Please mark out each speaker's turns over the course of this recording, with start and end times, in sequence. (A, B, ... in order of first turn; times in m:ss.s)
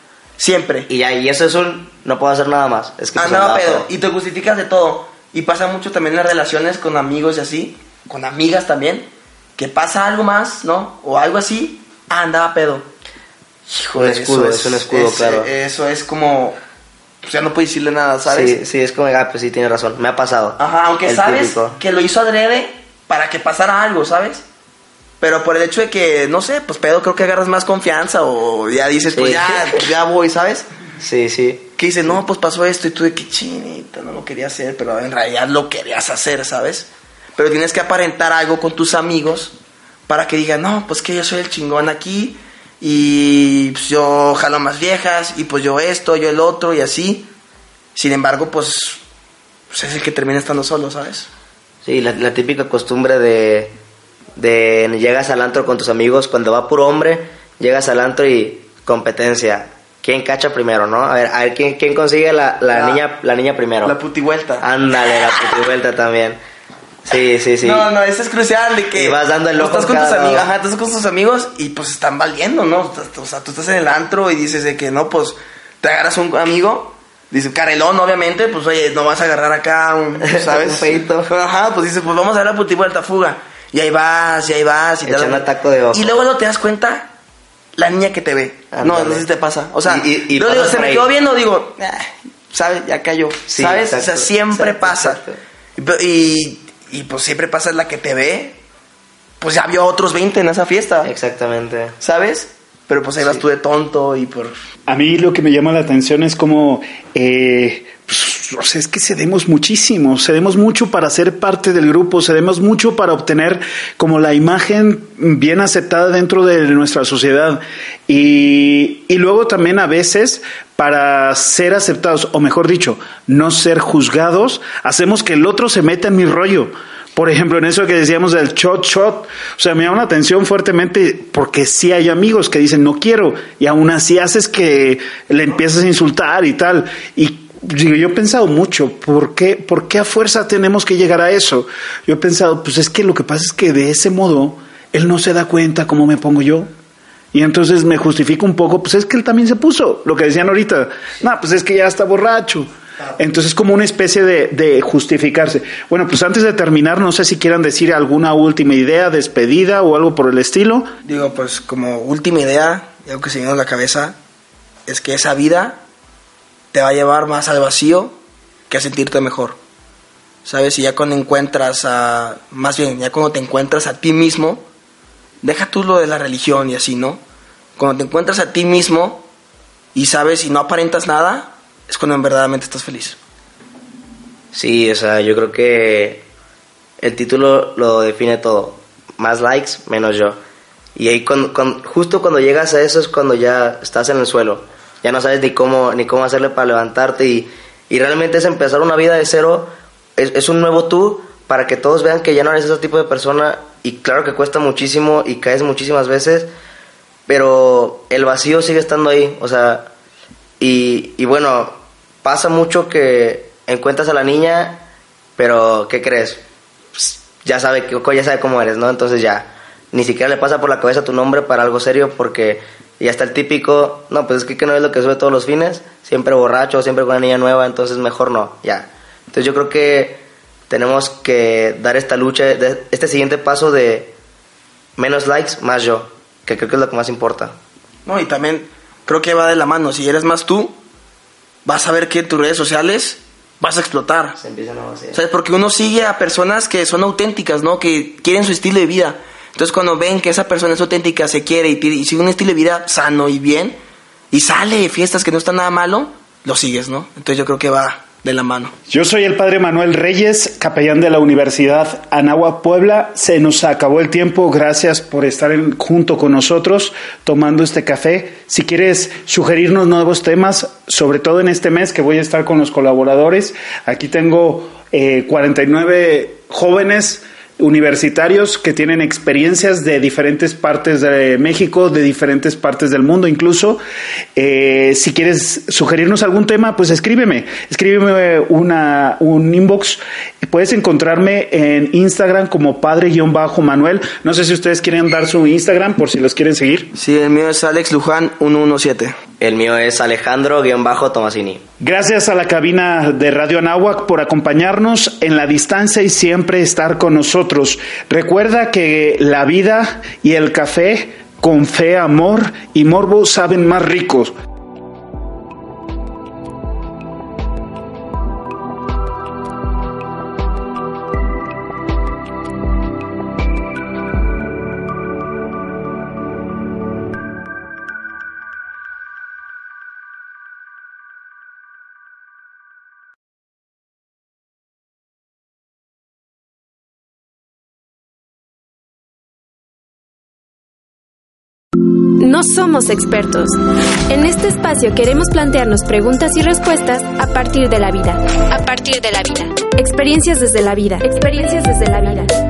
0:00.4-0:00.9 A
0:00.9-0:03.9 B
0:03.2-0:12.9 A
0:13.7-0:16.6 A
0:14.0-0:15.5 B
0:17.2-0:18.6 A
0:18.3-0:21.8 B
0:20.6-0:24.4 A
0:25.2-0:30.7 A
0:29.1-0:29.8 B
0:31.0-0:31.7 B
0:31.8-0:47.3 A
0:48.0-0:49.0 A
0:49.7-0:51.3 A
0:51.8-0:53.7 B
0:54.4-1:04.0 B
1:02.7-1:03.0 A
1:03.8-1:04.6 A
1:04.6-1:06.4 B
1:07.0-1:07.9 B
1:07.6-1:27.1 A
1:09.0-1:10.5 B
1:20.2-1:21.3 B
1:25.0-1:26.2 B
1:27.8-1:35.2 A
1:28.7-1:29.2 B
1:29.8-1:31.1 B
1:33.5-1:35.4 B
1:35.8-1:38.6 A
1:39.4-1:41.1 A
1:41.0-1:42.0 B
1:42.0-1:44.5 A
1:44.9-2:26.7 C
2:27.3-2:40.9 C
2:41.0-2:44.2 A
2:44.9-2:45.8 A
2:46.7-2:48.2 A
2:48.7-2:49.6 A
2:50.4-2:54.6 A
2:55.4-2:57.2 A
2:57.8-2:59.3 A
3:00.0-3:03.2 A
3:04.5-3:06.2 B
3:07.0-3:10.4 B
3:11.0-3:26.5 B
3:27.3-3:29.9 B
3:30.6-3:34.8 B
3:35.4-3:36.4 B
3:37.0-3:54.1 B
3:55.0-3:57.6 B
3:58.1-4:00.8 A
4:01.6-4:04.4 A
4:04.4-4:05.2 B
4:05.1-4:13.8 A
4:14.3-4:18.7 A
4:18.9-4:43.8 C
4:44.4-4:56.9 C
4:56.9-4:59.2 A
4:59.4-5:01.6 B
5:01.8-5:14.3 C
5:42.0-5:43.6 D
5:44.1-5:52.3 D